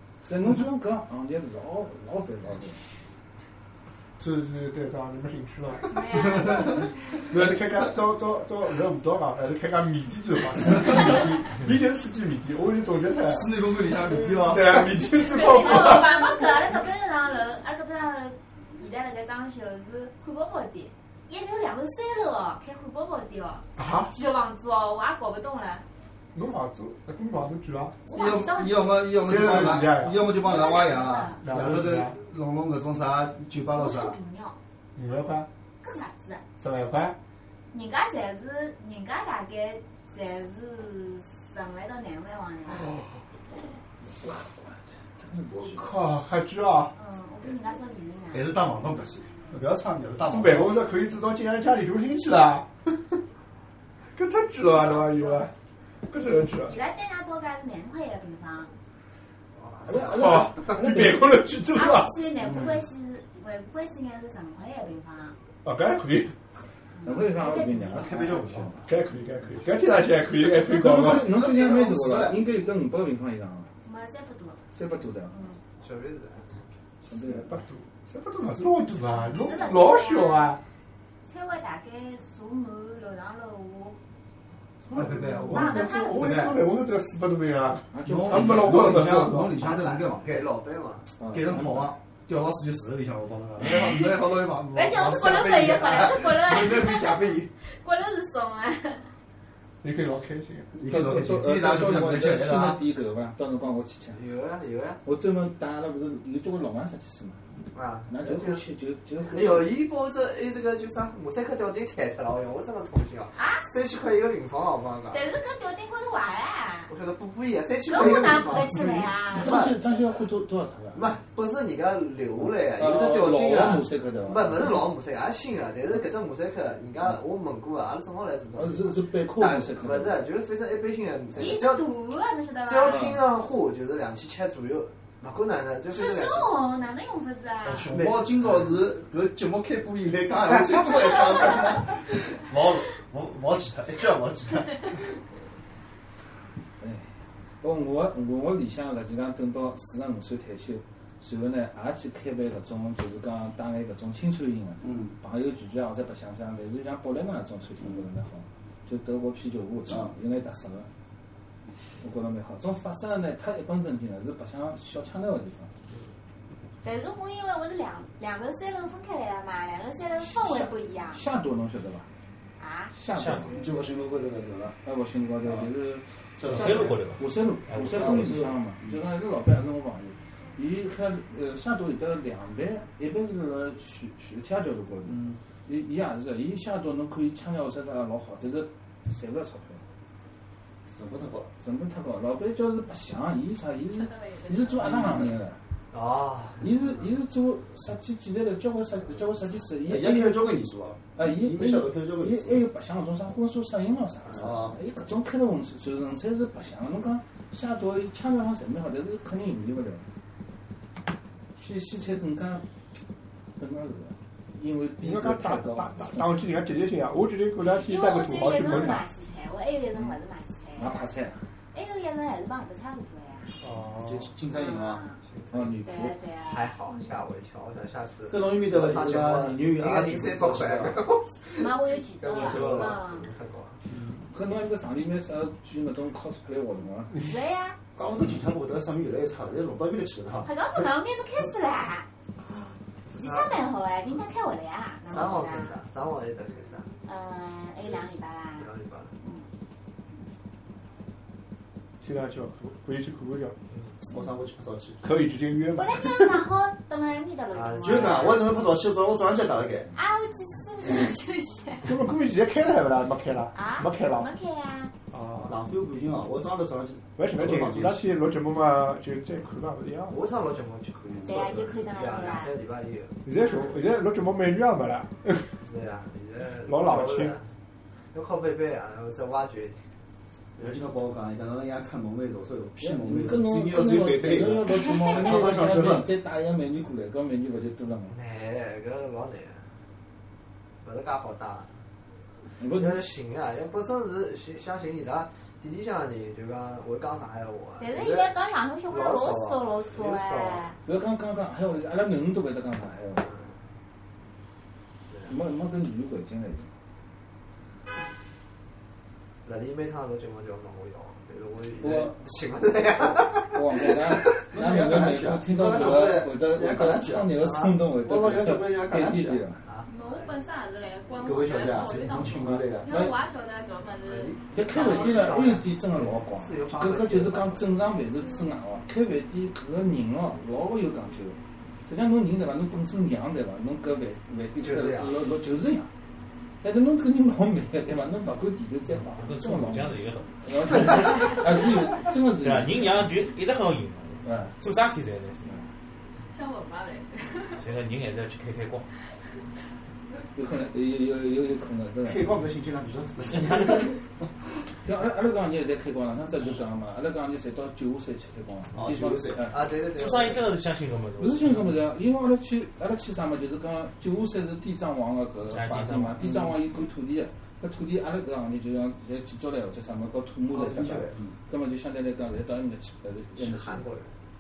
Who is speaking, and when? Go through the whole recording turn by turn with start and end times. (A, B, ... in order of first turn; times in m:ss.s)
0:00.2-0:02.8 A
0:04.2-0:06.7 B
0:05.9-0:06.9 C
0:06.2-0:06.8 D
0:07.2-0:13.5 B
0:13.3-0:14.9 D
0:14.5-0:16.2 B
0:15.2-0:16.4 E
0:15.5-0:25.8 C
0:23.8-0:24.1 B
0:26.3-0:28.0 B
0:28.0-0:29.0 C
0:28.1-0:34.2 D
0:29.2-0:30.2 B
0:29.7-0:31.4 C
0:31.4-0:32.2 B
0:33.7-0:34.6 C
0:35.0-0:35.5 B
0:35.8-0:36.4 C
0:36.6-0:37.2 B
0:37.7-0:42.9 C
0:42.7-0:43.1 B
0:44.1-0:45.9 A
0:45.6-0:47.0 B
0:47.0-0:48.5 C
0:48.3-0:50.8 D
0:50.3-0:52.7 B
0:54.2-0:55.5 B
0:54.8-0:55.5 C
0:56.1-0:56.8 B
0:56.6-0:58.7 C
0:59.6-0:59.9 F
0:59.8-1:01.2 A
1:00.0-1:02.2 B
1:01.7-1:05.3 C
1:02.4-1:02.8 D
1:05.6-1:06.3 B
1:07.0-1:08.2 C
1:07.0-1:08.8 A
1:07.4-1:08.8 D
1:08.9-1:11.3 B
1:10.6-1:13.7 A
1:11.0-1:12.4 D
1:13.8-1:14.6 C
1:14.7-1:15.4 A
1:15.8-1:16.7 F
1:17.0-1:17.6 A
1:17.3-1:20.6 B
1:19.2-1:20.6 C
1:21.3-1:24.0 C
1:24.9-1:26.6 D
1:24.9-1:29.6 B
1:25.5-1:26.3 C
1:27.9-1:29.0 A
1:28.0-1:30.4 D
1:29.6-1:31.1 F
1:31.2-1:31.9 A
1:31.3-1:37.5 D
1:34.7-1:39.1 C
1:39.8-1:40.7 B
1:40.7-1:42.8 D
1:40.9-1:44.2 A
1:44.1-1:45.0 F
1:45.0-1:47.4 A
1:47.7-1:48.6 F
1:48.1-1:49.7 A
1:49.3-1:55.2 F
1:53.4-1:53.7 C
1:55.1-1:56.9 C
1:56.9-1:59.8 F
1:57.8-1:59.6 C
1:58.6-2:01.2 A
2:00.9-2:11.9 F
2:02.4-2:04.7 A
2:08.6-2:10.2 A
2:11.3-2:13.1 C
2:12.6-2:16.5 F
2:12.9-2:13.2 A
2:15.9-2:17.9 C
2:17.6-2:25.0 D
2:17.8-2:18.8 F
2:26.8-2:40.9 A
2:34.8-2:35.1 D
2:39.9-2:40.1 D
2:42.0-2:45.7 A
2:46.8-2:51.2 C
2:50.2-2:52.1 A
2:52.6-2:52.9 C
2:52.9-2:53.5 A
2:53.1-2:53.6 G
2:53.5-2:54.8 D
2:54.8-3:09.8 A
2:55.4-2:55.7 D
2:56.4-2:57.0 D
2:56.5-2:58.0 G
2:57.7-2:59.0 D
3:05.0-3:05.4 D
3:10.9-3:11.5 D
3:11.6-3:15.6 A
3:13.9-3:14.9 E
3:14.8-3:15.4 D
3:15.9-3:16.9 F
3:16.6-3:20.5 A
3:19.8-3:22.6 D
3:21.1-3:30.0 A
3:24.3-3:24.8 D
3:31.6-3:32.6 A
3:33.6-3:36.0 A
3:35.0-3:39.1 B
3:37.8-3:41.0 C
3:40.8-3:41.4 A
3:41.7-3:43.6 C
3:43.6-3:44.3 B
3:43.9-3:45.0 D
3:44.5-3:45.2 C
3:45.2-3:45.7 F
3:45.5-3:46.2 A
3:45.8-3:46.7 C
3:46.4-3:53.8 F
3:48.3-3:51.0 D
3:51.5-3:53.3 C
3:52.2-3:53.0 D
3:53.9-3:54.2 B
3:54.3-3:57.2 A
3:57.2-3:57.8 C
3:57.9-4:00.6 D
4:00.4-4:02.0 C
4:03.1-4:05.7 C
4:03.2-4:03.6 F
4:05.1-4:06.9 F
4:07.0-4:08.7 C
4:08.5-4:09.2 F
4:12.0-4:13.6 B
4:13.7-4:14.0 F
4:14.1-4:15.0 D
4:15.0-4:16.4 B
4:15.7-4:18.3 C
4:17.5-4:18.5 F
4:17.8-4:19.9 D
4:19.9-4:22.0 C
4:21.8-4:24.3 B
4:23.5-4:24.9 C
4:25.1-4:25.6 B
4:25.4-4:28.1 D
4:27.2-4:30.2 B
4:30.1-4:33.2 F
4:31.1-4:31.7 D
4:31.2-4:32.5 C
4:33.2-4:35.5 B
4:35.6-4:37.4 F
4:36.6-4:37.3 B
4:38.1-4:39.8 F
4:40.6-4:46.1 D
4:42.8-4:48.2 A
4:48.1-4:49.6 F
4:50.8-4:51.7 F
4:52.6-4:53.0 A
4:52.7-4:58.3 F
4:57.8-5:00.8 C
4:58.9-5:00.7 F
5:00.8-5:03.2 A
5:03.2-5:03.6 F
5:05.3-5:06.7 A
5:09.4-5:14.4 F
5:11.8-5:12.2 A
5:13.5-5:19.6 A
5:14.4-5:19.4 D
5:17.3-5:17.7 F
5:19.6-5:20.4 F
5:19.9-5:25.3 E
5:21.2-5:23.1 D
5:22.4-5:23.2 A
5:24.1-5:27.7 F
5:24.5-5:35.9 A
5:34.6-5:35.2 F
5:36.6-5:43.2 A
5:39.2-5:41.4 G
5:42.3-5:45.6 G
5:44.2-5:44.6 A
5:46.3-5:47.6 E
5:47.6-5:48.8 G
5:50.3-5:52.4 A
5:52.0-5:54.3 D
5:54.8-5:59.6 A
5:58.7-5:59.6 D
5:59.5-6:00.4 F
5:59.9-6:01.8 G
6:01.2-6:13.8 A
6:05.5-6:06.2 G
6:06.2-6:06.6 D
6:10.5-6:11.4 D
6:13.4-6:14.2 F